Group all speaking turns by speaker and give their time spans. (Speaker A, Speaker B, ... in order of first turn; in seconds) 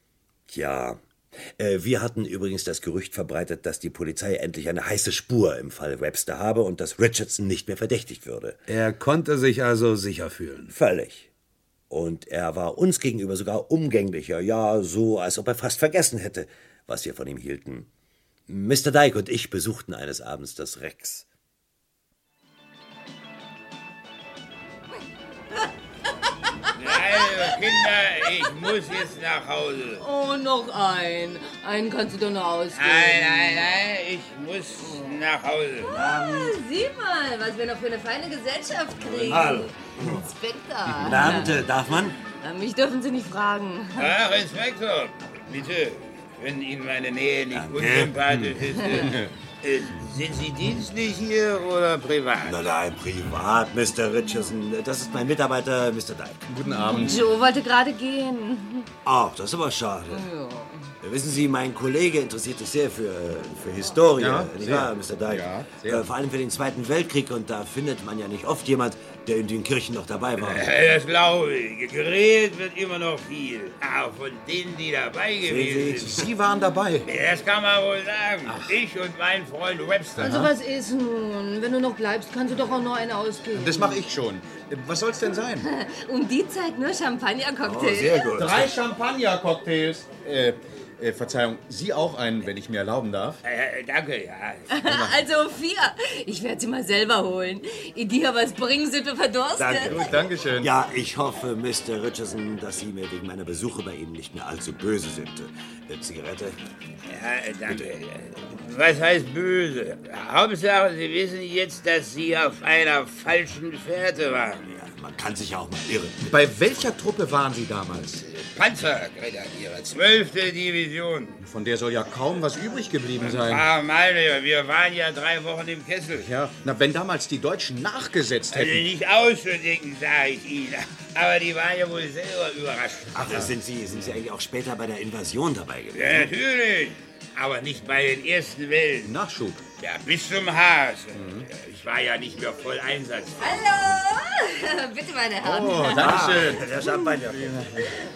Speaker A: 0.5-1.0, 1.6-8.6, 10.7-11.3, 11.9-17.9, 18.5-21.2, 35.9-36.5, 39.3-40.2, 40.9-42.2, 47.5-48.5, 52.4-56.5, 59.0-60.3, 61.0-70.7, 75.4-76.2, 87.6-88.7, 99.6-106.6, 114.7-116.3, 133.1-136.3, 145.9-147.7
Speaker B: 8.7-10.7
Speaker C: 26.8-30.0, 32.7-36.0, 44.0-52.6, 70.4-76.2, 77.0-80.3, 93.4-94.7, 107.0-114.7, 118.2-121.4, 123.2-126.3, 128.5-133.2, 135.9-139.1, 139.8-143.5
Speaker D: 26.9-28.8, 30.0-33.7, 34.8-35.2, 35.8-44.2, 48.8-49.1, 56.6-58.9, 60.1-60.9, 80.2-84.0, 85.6-88.4, 94.7-100.1, 143.4-146.3
Speaker E: 56.5-57.3, 64.2-66.1, 76.0-77.1, 83.6-85.7, 88.3-93.4, 94.9-95.2, 99.8-100.7, 116.3-118.2, 121.4-123.7, 126.2-128.9, 133.2-133.5, 139.0-139.6, 141.1-141.5, 145.4-147.9